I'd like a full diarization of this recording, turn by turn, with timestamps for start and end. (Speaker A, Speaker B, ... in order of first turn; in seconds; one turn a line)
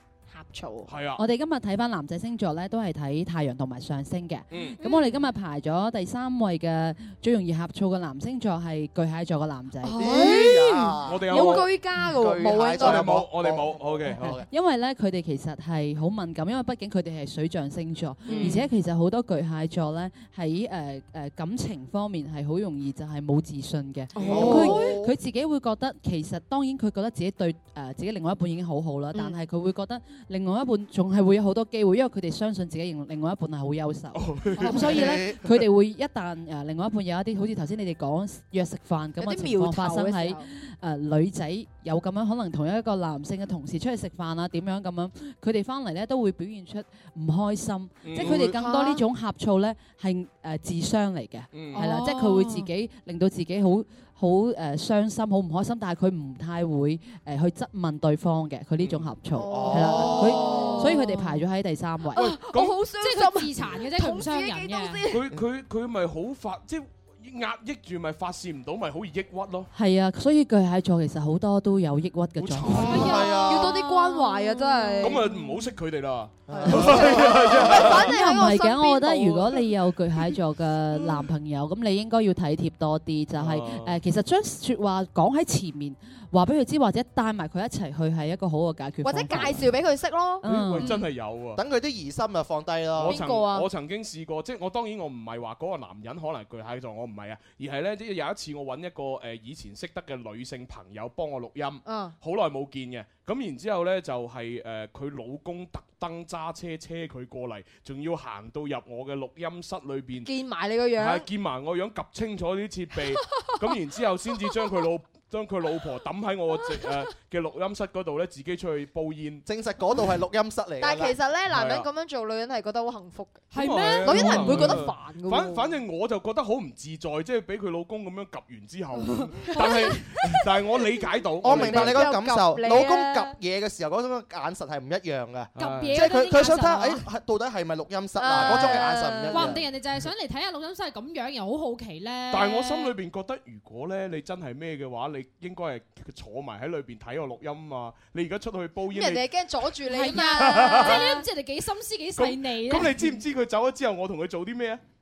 Speaker A: 0.3-0.9
Speaker B: 0.8-1.2
Speaker C: 1.2-10.1
Speaker B: 4.5-4.8
Speaker A: 4.8-5.3
Speaker A: 9.8-13.1
Speaker D: 10.0-14.4
Speaker B: 11.1-11.7
Speaker B: 12.7-14.3
Speaker C: 14.2-62.2
Speaker A: 18.2-18.6
Speaker B: 18.3-18.6
Speaker A: 24.1-24.9
Speaker B: 24.2-24.5
Speaker D: 24.2-25.1
Speaker E: 24.6-24.9
Speaker A: 29.1-29.4
Speaker B: 34.1-35.5
Speaker A: 34.5-35.0
Speaker D: 34.6-35.4
Speaker A: 39.2-40.5
Speaker B: 48.0-48.5
Speaker A: 48.1-49.0
Speaker B: 51.5-51.9
Speaker E: 51.7-52.7
Speaker B: 58.8-59.1
Speaker A: 59.3-61.2
Speaker D: 59.5-60.8
Speaker E: 60.6-60.9
Speaker A: 62.1-65.2
Speaker B: 62.2-62.8
Speaker E: 62.9-65.0
Speaker B: 65.1-69.7
Speaker C: 69.7-73.0
Speaker B: 72.4-73.0
Speaker E: 72.7-74.9
Speaker D: 72.8-73.8
Speaker A: 73.1-75.3
Speaker B: 75.0-78.1
Speaker D: 76.5-77.9
Speaker A: 76.5-79.6
Speaker C: 78.0-89.6
Speaker A: 80.9-81.2
Speaker B: 83.4-84.0
Speaker A: 89.0-91.1
Speaker C: 90.4-90.9
Speaker B: 90.4-91.6
Speaker D: 91.6-93.2
Speaker B: 92.9-110.3
Speaker A: 93.1-93.7
Speaker A: 101.8-102.1
Speaker A: 110.2-111.2
Speaker B: 111.0-119.4
Speaker D: 119.5-121.1
Speaker A: 120.8-125.8
Speaker B: 121.5-121.9
Speaker E: 123.5-124.6
Speaker B: 123.5-132.0
Speaker A: 129.5-130.3
Speaker E: 129.5-130.0
Speaker D: 131.4-139.6
Speaker A: 131.4-133.3
Speaker B: 135.6-136.0
Speaker E: 135.6-137.1
Speaker A: 138.2-139.6
Speaker E: 138.4-138.7
Speaker E: 139.3-142.9
Speaker B: 142.3-149.2
Speaker A: 148.9-151.2
Speaker E: 149.9-153.2
Speaker B: 150.3-151.1
Speaker B: 152.2-154.8